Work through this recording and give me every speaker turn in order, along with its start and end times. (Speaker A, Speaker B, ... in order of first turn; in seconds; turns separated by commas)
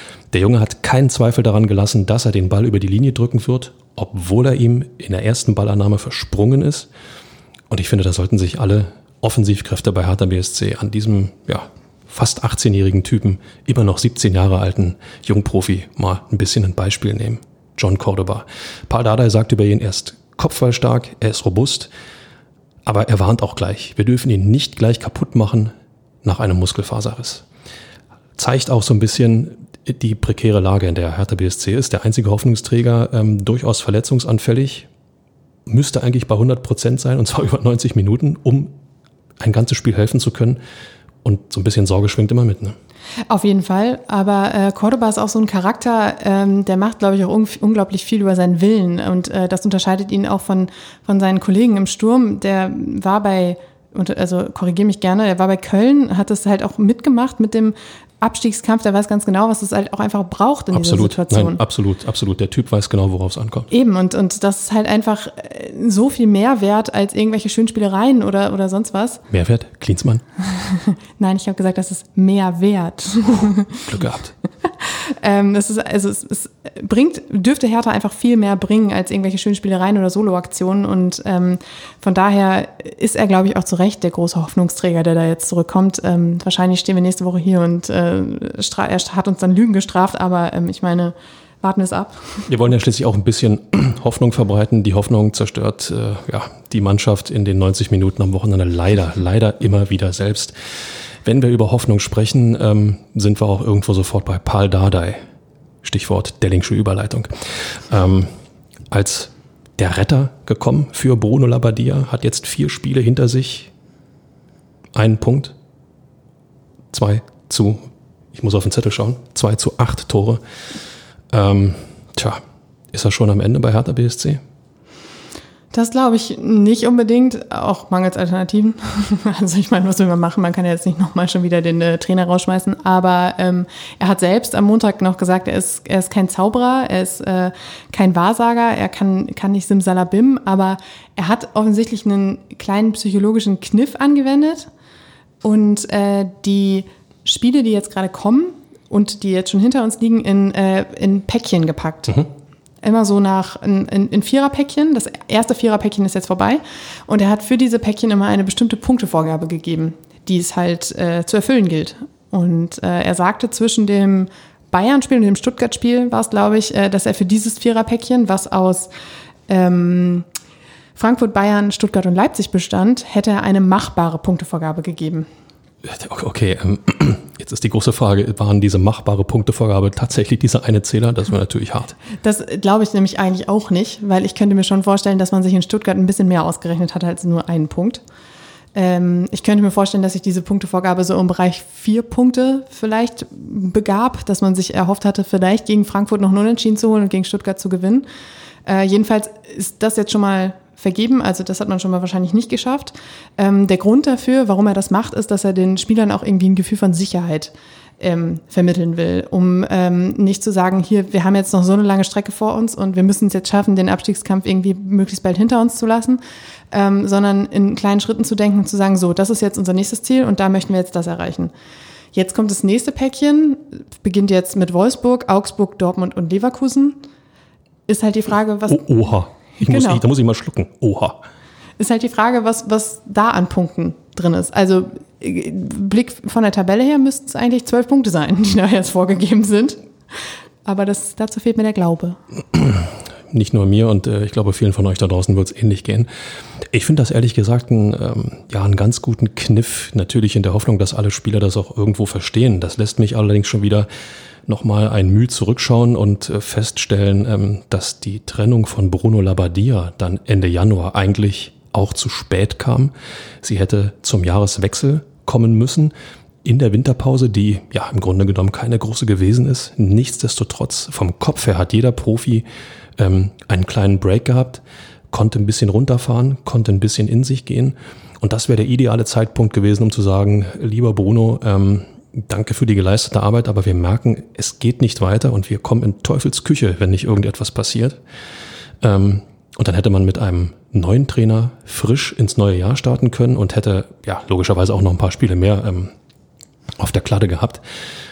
Speaker A: 0.3-6.9, Speaker A: 7.7-21.9, Speaker A: 22.9-25.7, Speaker A: 26.2-27.4, Speaker A: 28.4-34.9, Speaker A: 35.7-38.7, Speaker A: 39.4-40.6, Speaker A: 41.2-42.8, Speaker B: 43.3-61.6, Speaker A: 60.7-63.7, Speaker B: 63.7-69.2, Speaker A: 69.3-70.2, Speaker B: 70.4-73.9, Speaker A: 73.9-74.3, Speaker B: 74.6-92.5, Speaker A: 92.5-100.5, Speaker A: 101.2-105.2, Speaker A: 105.8-108.3, Speaker A: 108.9-113.7, Speaker A: 115.0-115.5, Speaker A: 116.9-117.8, Speaker A: 118.3-120.4, Speaker A: 121.3-122.4, Speaker A: 122.9-124.4, Speaker B: 125.7-144.7, Speaker B: 145.4-152.3, Speaker B: 152.8-168.9, Speaker B: 169.5-170.3, Speaker B: 171.0-175.3, Speaker A: 175.8-182.0, Speaker B: 182.2-188.0, Speaker B: 188.8-198.1, Speaker B: 198.7-216.2, Speaker B: 216.7-221.5, Speaker B: 222.1-227.0, Speaker B: 227.9-228.9, Speaker A: 228.7-231.2, Speaker B: 229.6-230.0, Speaker B: 231.8-239.8, Speaker B: 240.7-242.2, Speaker A: 242.5-246.1, Speaker A: 246.6-253.9, Speaker A: 254.5-265.9, Speaker A: 266.4-272.4, Speaker A: 273.0-288.0, Speaker A: 288.8-295.9, Speaker A: 296.8-297.6